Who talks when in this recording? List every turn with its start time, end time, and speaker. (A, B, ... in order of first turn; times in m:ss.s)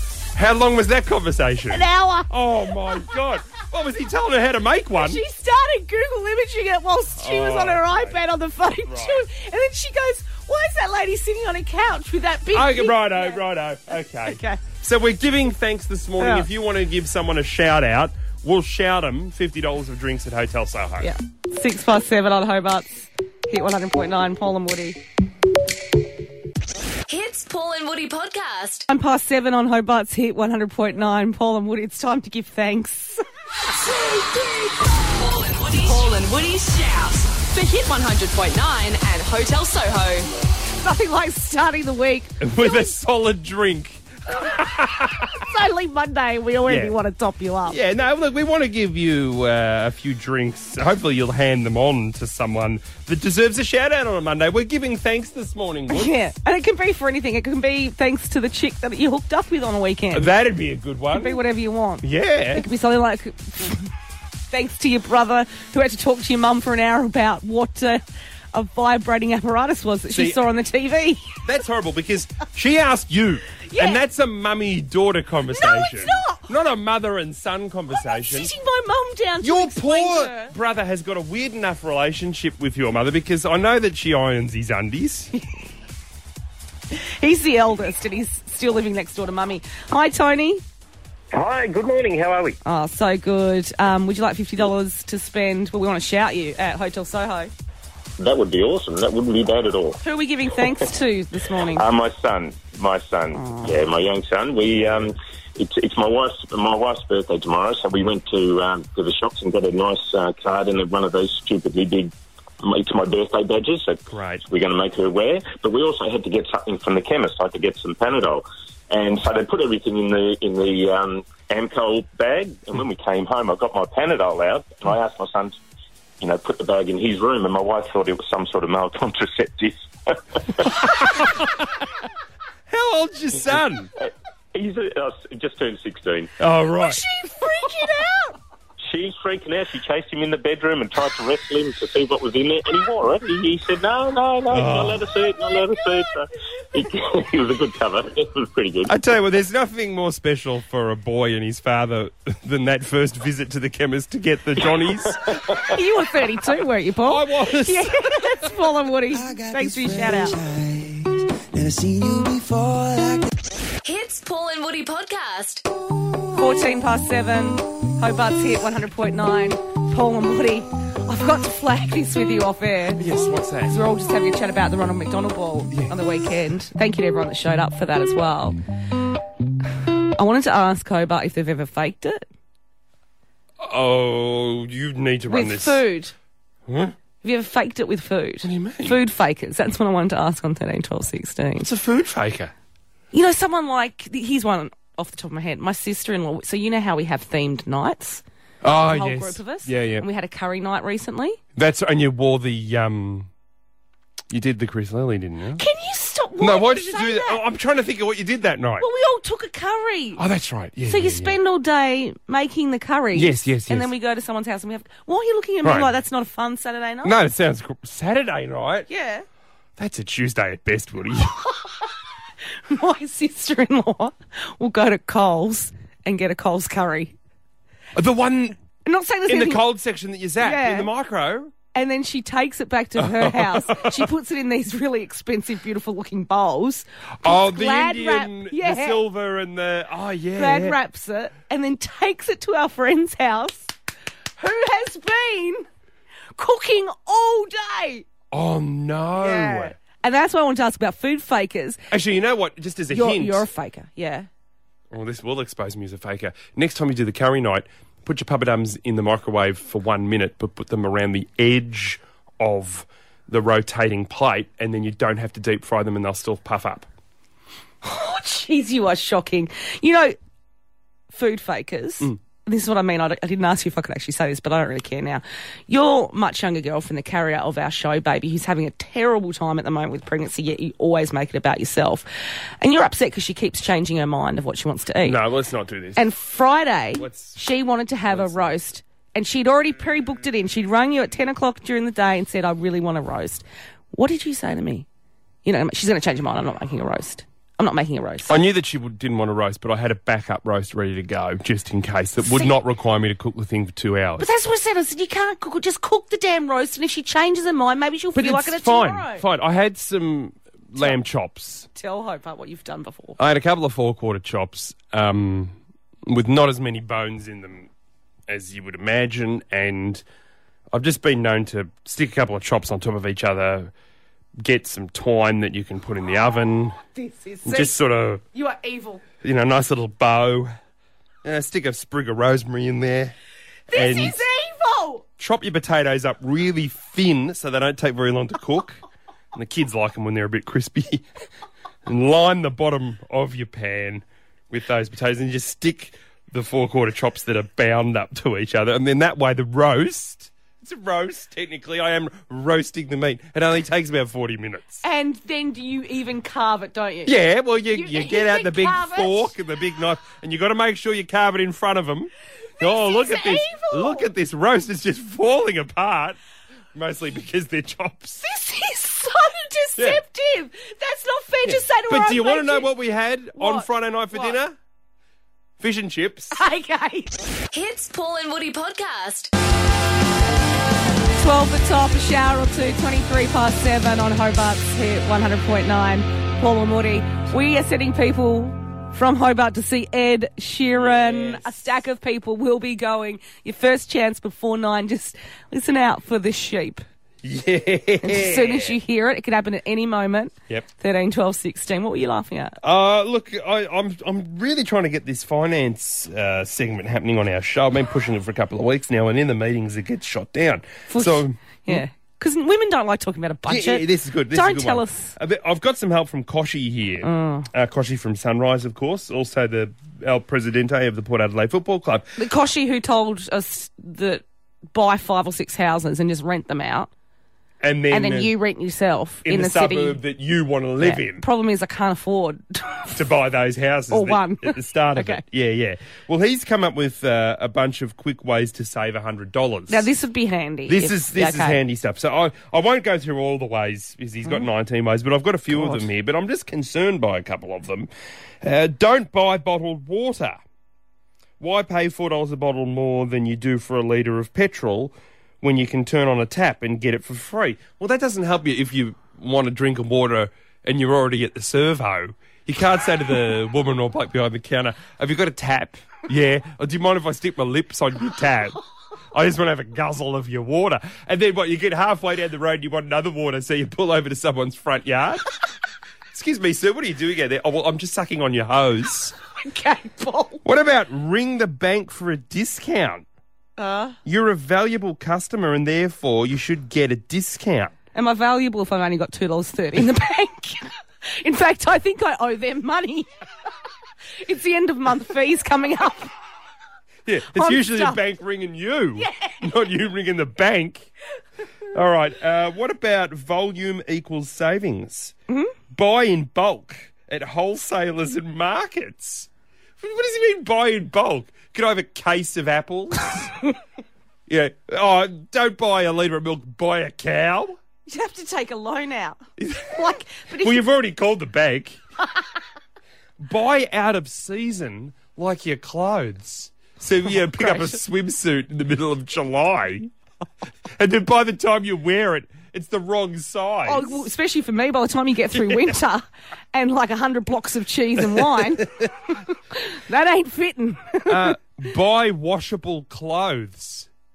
0:00.3-0:05.2 A
0:01.7-0:02.3 B
0:05.0-0:13.4 B
0:07.2-0:08.2 A
0:08.8-0:09.3 A
0:12.5-0:21.1 A
0:14.2-0:14.6 B
0:16.2-0:16.5 B
0:21.0-0:25.0 B
0:27.1-0:28.8 C
0:28.9-0:33.2 B
0:33.7-0:40.3 D
0:40.8-0:42.9 B
0:42.4-0:45.4 A
0:45.2-0:47.8 B
0:46.6-0:46.9 A
0:47.6-0:56.2 A
0:55.9-1:00.3 B
1:00.1-1:01.4 A
1:01.1-1:03.9 B
1:02.0-1:02.6 A
1:04.5-1:08.0 B
1:08.5-1:11.2 B
1:10.1-1:10.4 A
1:11.4-1:18.5 A
1:13.7-1:14.0 B
1:15.5-1:16.4 B
1:17.9-1:20.5 B
1:19.4-1:25.3 A
1:26.9-1:30.6 B
1:31.3-1:32.6 E
1:32.6-1:37.5 B
1:38.2-1:40.0 E
1:40.0-1:41.8 B
1:41.7-2:05.6 E
1:43.3-1:43.8 B
1:54.1-1:54.4 A
2:06.2-2:10.8 E
2:10.8-2:11.7 A
2:12.7-2:13.9 A
2:14.0-2:16.3 E
2:16.4-2:17.0 A
2:16.8-2:18.4 B
2:18.8-2:28.9 E
2:24.5-2:25.1 A
2:28.9-2:35.4 A
2:35.2-2:35.6 E
2:35.7-2:40.4 B
2:37.0-2:38.5 A
2:39.2-2:43.3 F
2:43.8-2:45.6 C
2:46.3-2:53.1 B
2:53.0-2:53.8 A
2:53.6-2:58.6 B
2:55.7-2:56.0 A
3:00.1-3:02.2 B
3:03.6-3:05.8 A
3:05.3-3:06.1 B
3:06.7-3:06.9 A
3:07.2-3:11.7 B
3:08.4-3:09.0 A
3:11.6-3:12.5 A
3:13.1-3:21.4 B
3:18.6-3:20.0 A
3:21.6-3:23.3 A
3:24.3-3:25.6 A
3:25.6-3:27.4 B
3:26.4-3:28.9 A
3:28.8-3:30.2 B
3:30.2-3:31.4 A
3:30.8-3:37.1 B
3:33.1-3:33.9 A
3:35.6-3:35.9 A
3:37.0-3:38.9 A
3:38.9-3:39.2 B
3:39.8-3:41.5 A
3:42.7-3:47.1 B
3:47.9-3:48.6 A
3:48.8-3:49.6 B
3:49.3-3:51.5 A
3:50.4-3:50.9 B
3:51.7-3:59.0 B
3:53.0-3:54.1 A
3:57.2-4:00.8 A
4:00.3-4:03.7 B
4:04.4-4:05.7 B
4:06.4-4:08.0 B
4:08.3-4:09.8 A
4:09.2-4:11.8 B
4:11.9-4:13.5 A
4:12.9-4:14.3 B
4:14.9-4:26.9 A
4:27.8-4:30.1 B
4:31.1-4:42.0 B
4:42.6-4:45.2 B
4:45.0-4:46.1 A
4:46.0-4:54.8 B
4:46.9-4:47.4 A
4:48.0-4:48.6 A
4:55.4-4:58.4 B
4:58.3-5:04.3 A
5:02.2-5:02.5 B
5:04.2-5:09.2 B
5:08.2-5:11.7 A
5:11.7-5:13.2 B
5:13.2-5:15.5 A
5:16.0-5:17.7 A
5:18.3-5:20.0 A
5:20.7-5:23.7 A
5:24.4-5:26.8 A
5:26.9-5:27.8 B
5:27.4-5:28.2 A
5:28.3-5:29.0 B
5:29.2-5:30.5 A
5:31.2-5:33.2 A
5:33.7-5:35.0 B
5:33.7-5:34.2 A
5:35.2-5:38.8 A
5:39.3-5:41.0 A
5:41.8-5:54.8 A
5:54.8-5:57.2 B
5:57.0-6:06.2 A
5:57.7-5:59.3 B
6:02.6-6:04.1 B
6:06.7-6:08.2 A
6:08.2-6:12.7 B
6:09.8-6:10.0 A
6:11.4-6:14.6 A
6:13.3-6:14.4 B
6:15.6-6:16.4 A
6:16.3-6:17.1 B
6:17.5-6:19.3 C
6:21.1-6:36.8 B
6:30.7-6:31.6 A
6:37.2-6:38.8 A
6:38.0-6:42.6 B
6:42.6-6:51.8 A
6:50.9-6:55.2 B
6:53.5-7:02.1 A
6:57.0-6:57.5 B
7:02.2-7:06.9 B
7:07.6-7:08.3 A
7:07.9-7:10.0 B
7:09.2-7:11.2 A
7:10.8-7:13.0 B
7:12.9-7:19.9 A
7:13.9-7:15.2 B
7:19.7-7:21.6 B
7:20.7-7:27.9 A
7:25.5-7:25.8 B
7:28.4-7:30.4 A
7:31.4-7:48.6 A
7:49.1-7:55.2 A
7:56.1-7:59.2 A
7:59.4-8:00.4 B
8:00.4-8:03.0 A
8:03.6-8:04.0 B
8:04.0-8:07.7 A
8:07.9-8:13.1 B
8:14.2-8:16.1 B
8:17.0-8:20.9 A
8:17.3-8:18.0 B
8:19.0-8:19.4 B
8:21.7-8:25.1 A
8:25.3-8:25.5 B
8:25.7-8:33.3 A
8:34.3-8:37.6 A
8:37.9-8:40.6 B
8:39.4-8:41.8 A
8:43.2-8:49.9 A
8:47.1-8:47.8 B
8:50.8-8:54.1 A
8:53.6-9:01.4 B
8:55.3-8:55.7 A
8:58.1-8:58.8 A
9:01.0-9:03.9 A